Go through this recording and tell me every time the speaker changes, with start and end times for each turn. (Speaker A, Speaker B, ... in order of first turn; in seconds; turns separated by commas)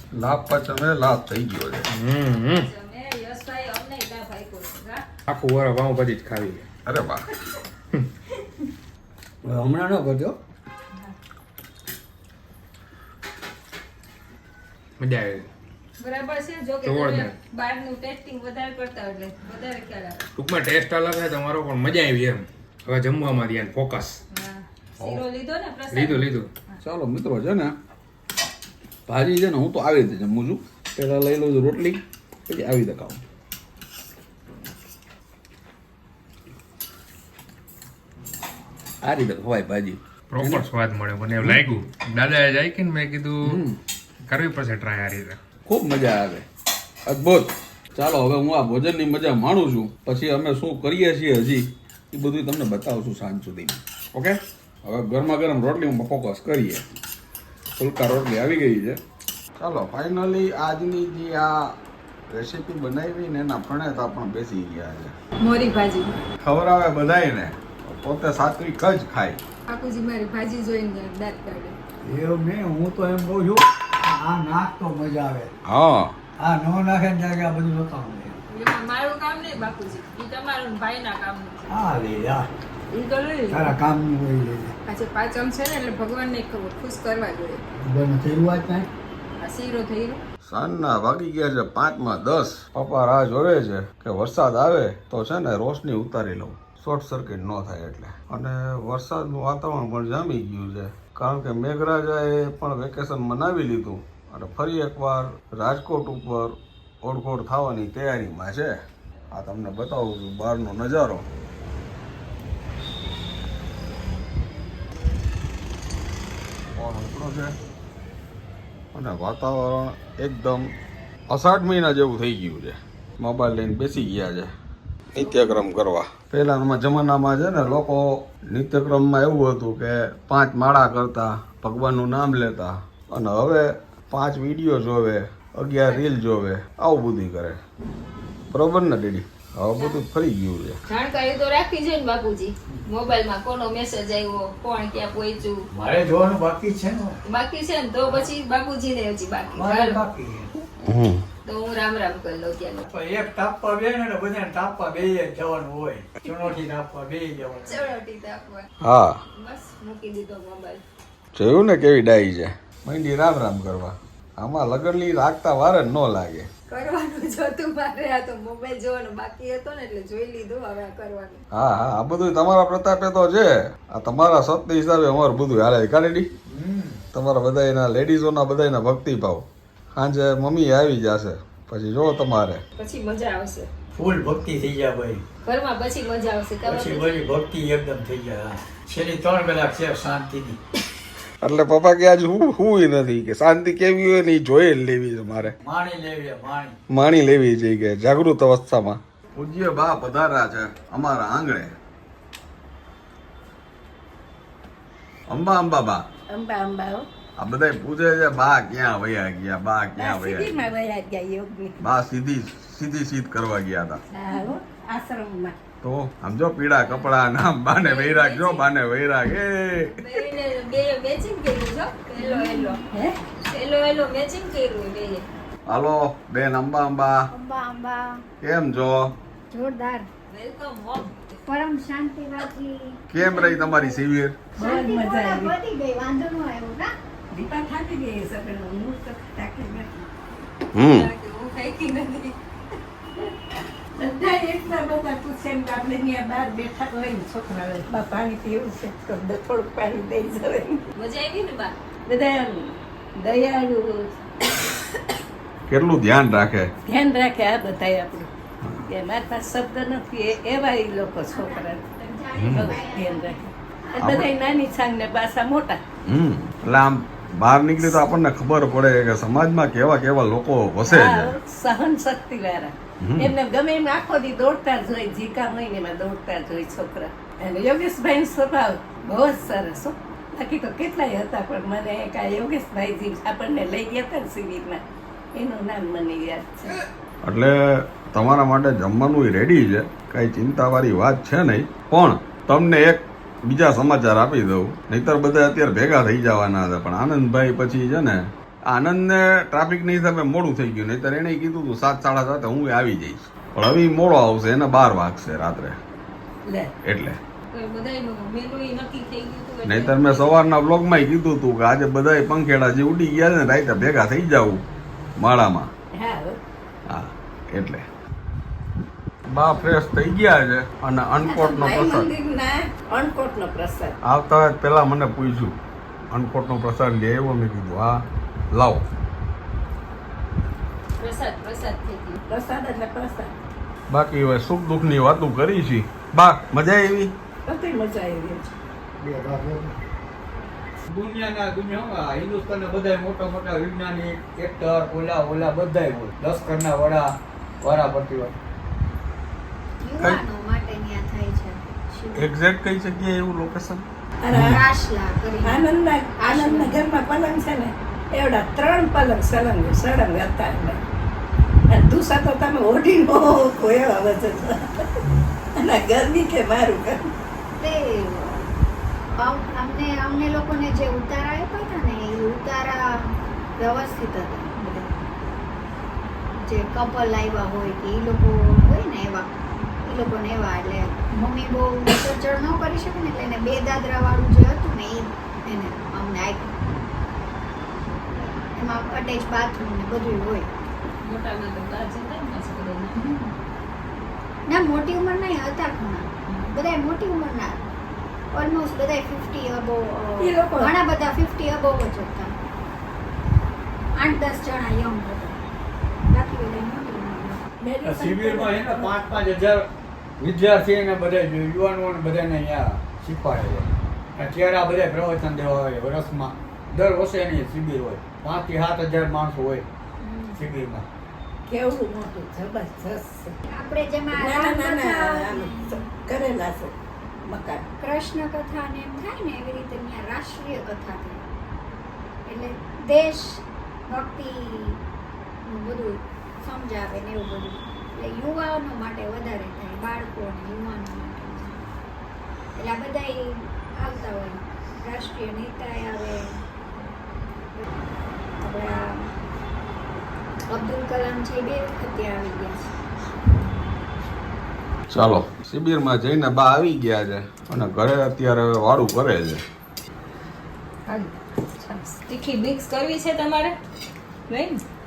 Speaker A: 0.1-1.9, Speaker B: 1.9-2.7, Speaker C: 2.6-5.0, Speaker B: 5.3-6.6, Speaker A: 6.8-7.2, Speaker D: 9.4-10.4, Speaker B: 15.0-15.5, Speaker C: 16.0-20.2, Speaker B: 16.8-17.3, Speaker B: 20.4-24.2, Speaker C: 24.3-26.8, Speaker B: 25.9-26.5, Speaker A: 26.8-27.8, Speaker A: 29.1-33.2, Speaker A: 39.0-40.6, Speaker B: 40.3-43.6, Speaker A: 43.4-43.8, Speaker B: 44.2-45.4, Speaker A: 45.7-46.4, Speaker A: 47.1-56.8, Speaker A: 57.8-59.0, Speaker A: 59.6-61.7, Speaker A: 62.3-65.1, Speaker C: 65.4-66.2, Speaker A: 66.4-69.4, Speaker C: 69.7-71.8, Speaker D: 72.0-75.5, Speaker A: 75.7-76.2, Speaker D: 76.4-78.4, Speaker C: 78.5-81.6, Speaker D: 81.7-82.5, Speaker C: 82.9-83.8, Speaker D: 83.5-84.7, Speaker C: 84.8-87.6, Speaker D: 87.8-88.9, Speaker C: 89.4-90.2, Speaker A: 90.5-108.7, Speaker A: 109.3-111.2, Speaker A: 116.7-117.5, Speaker A: 118.9-120.7, Speaker A: 121.3-124.5, Speaker A: 125.1-137.6, Speaker A: 138.5-140.8, Speaker C: 139.8-140.0, Speaker C: 140.9-145.7, Speaker D: 145.7-147.2, Speaker C: 147.3-150.1, Speaker D: 149.5-150.5, Speaker A: 150.8-151.2, Speaker C: 151.4-152.9, Speaker D: 152.8-157.8, Speaker C: 157.6-158.7, Speaker A: 158.8-159.2, Speaker C: 159.3-160.8, Speaker A: 161.3-166.5, Speaker C: 166.7-171.4, Speaker A: 171.5-176.3, Speaker D: 176.5-177.0, Speaker A: 177.1-182.6, Speaker C: 182.8-183.7, Speaker D: 183.9-185.2, Speaker C: 185.4-187.2, Speaker D: 186.6-190.6, Speaker A: 191.4-195.5, Speaker D: 195.6-196.8, Speaker A: 196.9-201.7, Speaker A: 205.3-206.0, Speaker E: 206.3-207.1, Speaker A: 207.4-210.6, Speaker E: 209.9-211.8, Speaker A: 211.8-214.0, Speaker E: 214.1-215.6, Speaker A: 215.8-219.9, Speaker C: 217.7-218.7, Speaker C: 219.8-222.8, Speaker F: 222.2-222.8, Speaker E: 222.9-223.2, Speaker C: 223.4-225.2, Speaker A: 225.7-227.2, Speaker F: 227.3-228.2, Speaker A: 228.4-229.1, Speaker F: 229.5-230.1, Speaker C: 230.3-231.4, Speaker F: 231.4-234.0, Speaker A: 233.1-234.4, Speaker F: 234.6-236.9, Speaker E: 234.6-235.5, Speaker E: 237.3-240.1, Speaker A: 240.7-241.1, Speaker C: 240.8-242.3, Speaker E: 243.9-250.9, Speaker C: 250.9-251.7, Speaker E: 252.1-254.1, Speaker A: 255.7-256.7, Speaker E: 256.9-258.3, Speaker E: 258.9-261.9, Speaker F: 261.3-263.5, Speaker A: 262.4-262.8, Speaker E: 262.5-265.8, Speaker A: 264.0-264.3, Speaker F: 264.4-264.8, Speaker A: 266.1-271.4, Speaker E: 270.8-284.8, Speaker A: 273.0-273.3, Speaker E: 285.3-286.8, Speaker A: 287.2-305.8, Speaker A: 306.8-307.2, Speaker C: 307.5-310.4, Speaker A: 309.6-314.6, Speaker A: 315.2-315.7, Speaker E: 315.9-316.4, Speaker A: 316.9-317.9, Speaker A: 319.3-322.1, Speaker E: 321.2-323.9, Speaker A: 324.0-325.6, Speaker A: 326.1-328.0, Speaker A: 328.5-328.8, Speaker C: 331.0-332.2, Speaker E: 332.3-333.3, Speaker A: 333.9-337.1, Speaker E: 337.4-338.5, Speaker D: 339.0-339.8, Speaker D: 340.9-347.1, Speaker D: 347.6-348.3, Speaker F: 349.8-352.3, Speaker A: 352.1-354.5, Speaker E: 354.2-354.6, Speaker F: 354.3-355.6, Speaker E: 355.4-360.8, Speaker F: 356.2-356.8, Speaker E: 361.7-367.1, Speaker F: 367.6-368.5, Speaker F: 369.2-375.1, Speaker F: 376.4-386.6, Speaker F: 388.1-390.5, Speaker C: 391.0-393.0, Speaker F: 392.9-393.3, Speaker F: 394.5-397.6, Speaker F: 398.3-402.3, Speaker E: 400.2-400.7, Speaker F: 404.0-405.4, Speaker F: 406.1-407.4, Speaker E: 407.6-409.0, Speaker D: 407.8-409.6, Speaker D: 410.2-419.7, Speaker F: 420.0-420.4, Speaker D: 420.4-420.8, Speaker E: 421.5-423.4, Speaker F: 423.5-425.8, Speaker E: 424.1-426.7, Speaker E: 427.2-427.7, Speaker F: 427.8-431.2, Speaker F: 432.2-434.8, Speaker F: 435.4-441.6, Speaker F: 442.6-446.4, Speaker F: 448.4-449.1, Speaker F: 450.5-452.6, Speaker A: 454.9-459.4, Speaker C: 460.9-463.6, Speaker C: 464.3-464.6